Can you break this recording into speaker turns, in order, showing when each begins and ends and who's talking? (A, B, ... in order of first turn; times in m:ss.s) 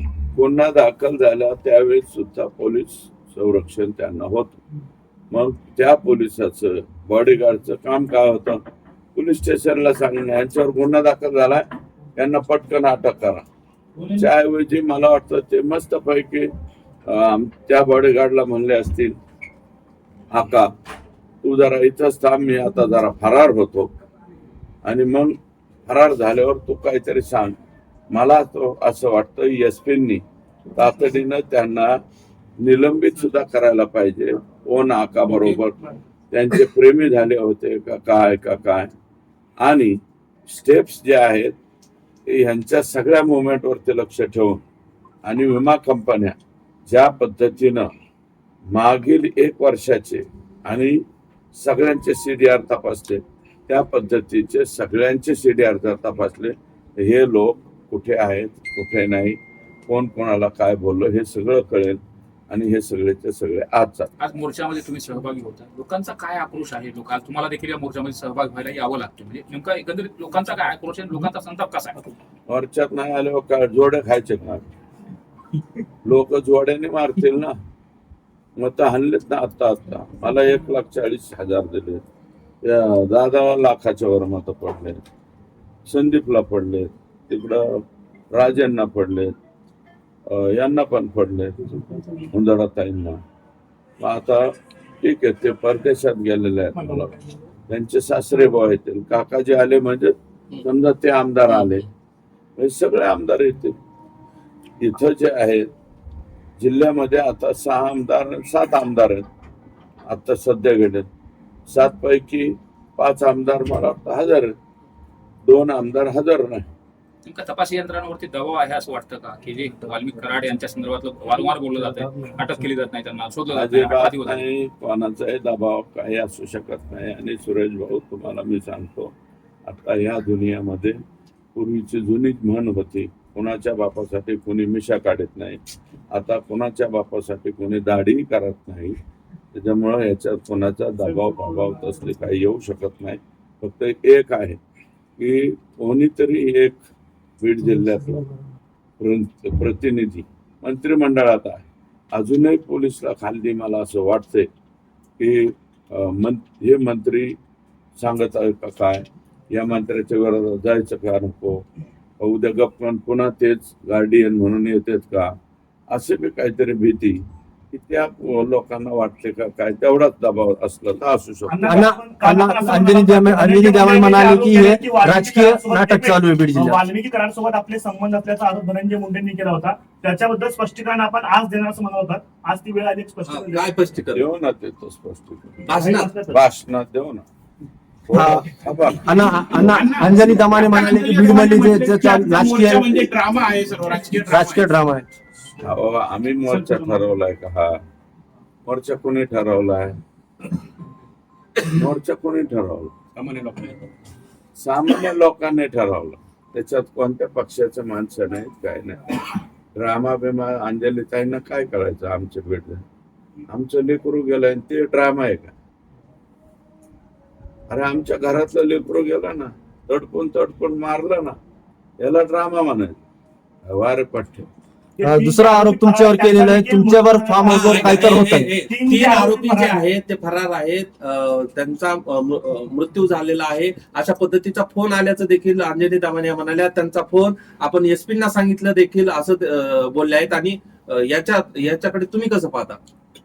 0:00.3-0:04.6 A
0:05.3-0:08.6 A
0:09.2-0:11.6 A
0:12.2-0:13.5 A
0:14.2-0:16.5 A
0:17.1-0:19.2 A
0:20.3-0:20.7 A
0:21.4-0:23.9 A
0:24.8-0:25.4 A
0:25.9-0:27.6 A
0:28.1-0:30.2 A
0:30.8-0:32.0 A
0:32.6-0:38.9 A
0:39.6-0:41.6 A
0:42.3-0:44.6 A
0:45.3-0:46.4 A
0:46.9-0:47.9 A
0:48.7-0:51.0 A
0:51.6-1:04.1 A
1:04.2-1:12.1 B
1:12.5-1:14.6 A
1:16.0-1:17.6 A
1:18.6-1:22.0 A
1:22.6-1:25.0 A
1:25.9-1:29.3 A
1:30.3-1:33.2 A
1:34.0-1:34.5 A
1:35.0-1:37.2 A
1:37.7-1:41.9 A
1:41.5-1:41.8 C
1:42.6-1:43.8 A
1:44.8-1:45.7 A
1:46.6-1:49.3 A
1:50.1-1:51.1 A
1:51.7-1:54.5 A
1:55.4-1:56.7 A
1:57.2-2:04.4 B
2:03.5-2:09.1 A
2:09.7-2:11.0 A
2:11.6-2:19.0 A
2:19.5-2:24.6 A
2:25.2-2:26.8 A
2:27.4-2:28.3 A
2:29.0-2:34.5 A
2:35.2-2:37.4 A
2:38.0-2:41.6 A
2:42.2-2:45.3 A
2:45.9-2:51.8 A
2:51.5-3:03.8 D
2:51.6-2:56.8 E
3:03.3-3:04.2 C
3:04.1-3:05.6 A
3:05.7-3:06.1 C
3:05.8-3:06.4 D
3:06.3-3:07.3 A
3:08.1-3:09.2 A
3:08.1-3:13.0 E
3:09.4-3:14.7 F
3:14.3-3:15.1 E
3:15.6-3:17.8 A
3:16.5-3:17.0 F
3:18.7-3:20.0 A
3:21.6-3:23.0 A
3:23.1-3:23.9 F
3:24.6-3:29.2 A
3:29.8-3:32.8 A
3:33.5-3:35.5 A
3:37.7-3:41.4 A
3:42.0-3:43.0 A
3:43.7-3:44.5 A
3:45.0-3:47.9 D
3:45.0-3:48.6 E
3:47.4-4:02.8 C
3:48.7-3:49.8 D